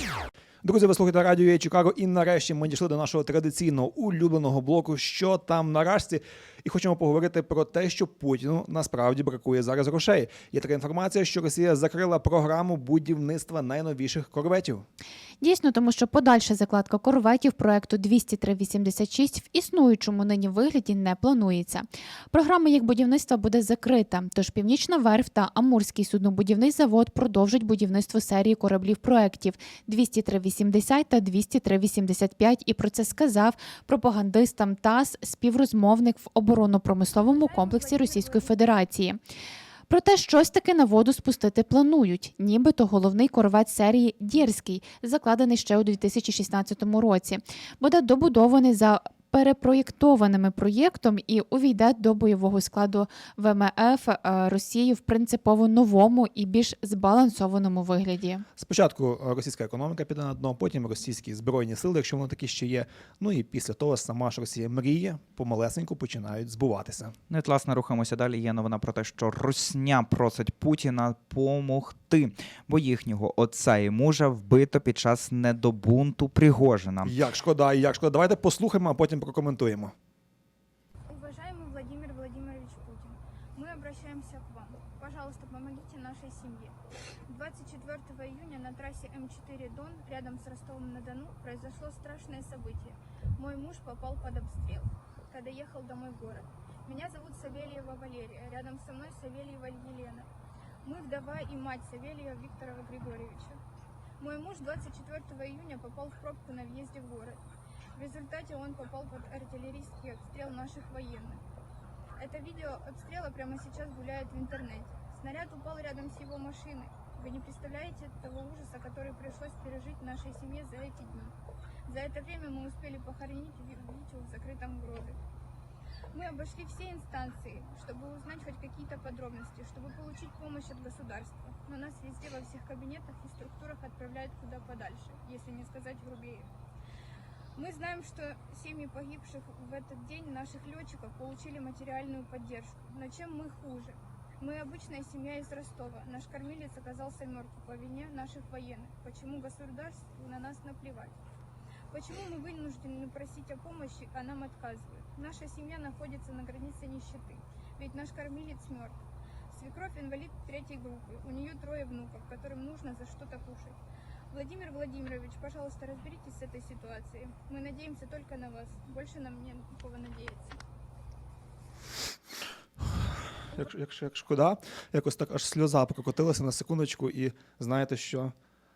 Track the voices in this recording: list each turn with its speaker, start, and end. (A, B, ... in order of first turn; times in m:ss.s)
0:00.6-0:14.9 A
0:15.4-0:39.2 B
0:37.2-0:38.6 C
0:39.9-0:58.4 B
0:58.6-1:07.2 A
1:07.3-1:17.2 D
1:17.0-1:19.9 A
1:21.1-1:40.3 C
1:40.8-1:43.6 C
1:44.2-1:47.4 C
1:48.0-1:51.4 C
1:52.2-2:05.2 C
2:06.1-2:16.5 C
2:17.6-2:31.2 C
2:31.9-2:39.0 C
2:39.5-2:43.8 C
2:44.3-2:50.6 C
2:53.5-2:58.3 A